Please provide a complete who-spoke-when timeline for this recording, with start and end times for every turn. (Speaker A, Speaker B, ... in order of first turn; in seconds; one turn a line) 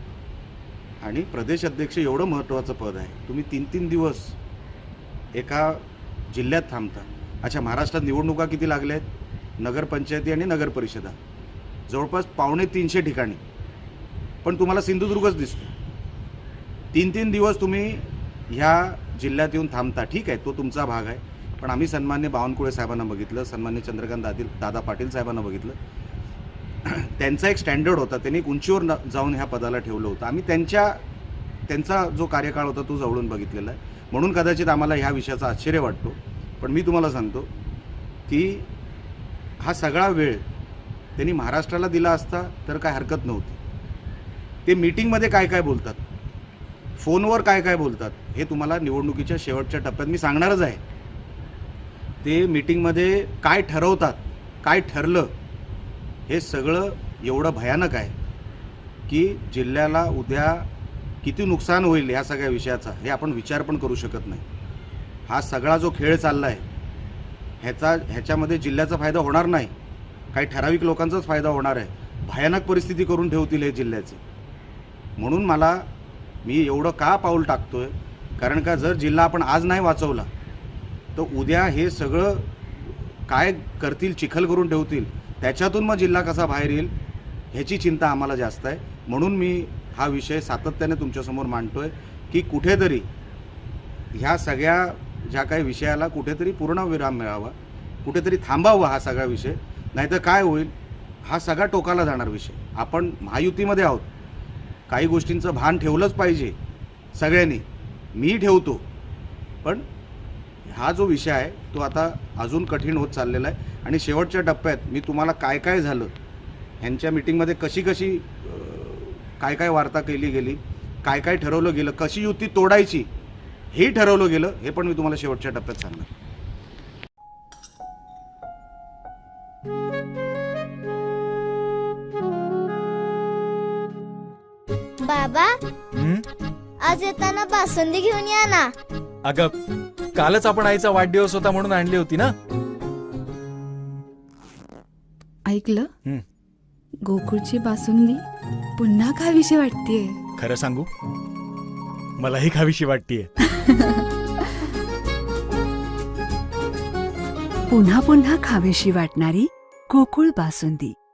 Speaker A: 1.0-4.4
Speaker A: 5.3-9.1
Speaker A: 9.6-11.2
Speaker A: 11.9-13.4
Speaker A: 14.4-15.7
Speaker A: 16.9-25.8
Speaker A: 26.8-31.0
Speaker A: 31.7-37.5
Speaker A: 38.3-38.7
Speaker A: 39.6-40.4
Speaker A: 41.1-43.6
Speaker A: 44.6-46.0
Speaker A: 47.0-50.8
Speaker A: 52.2-55.3
Speaker A: 56.3-58.1
Speaker A: 59.1-60.7
Speaker A: 61.2-64.4
Speaker A: 65.3-66.6
Speaker A: 67.6-69.7
Speaker A: 70.3-74.2
Speaker A: 75.2-75.9
Speaker A: 76.4-80.3
Speaker A: 81.1-86.9
Speaker A: 87.5-93.1
Speaker A: 94.1-100.7
Speaker A: 101.2-104.1
Speaker A: 104.9-106.5
Speaker A: 107.1-107.6
Speaker A: 108.1-108.8
Speaker A: 110.6-116.1
Speaker A: 116.8-123.1
Speaker A: 123.7-126.1
Speaker B: 135.0-135.6
Speaker C: 136.0-136.2
Speaker B: 136.8-138.7
Speaker C: 139.2-139.5
Speaker C: 140.1-142.3
Speaker D: 145.5-145.9
Speaker D: 147.0-148.2
Speaker D: 148.8-150.2
Speaker C: 150.4-150.9
Speaker C: 152.2-153.3
Speaker E: 157.7-160.9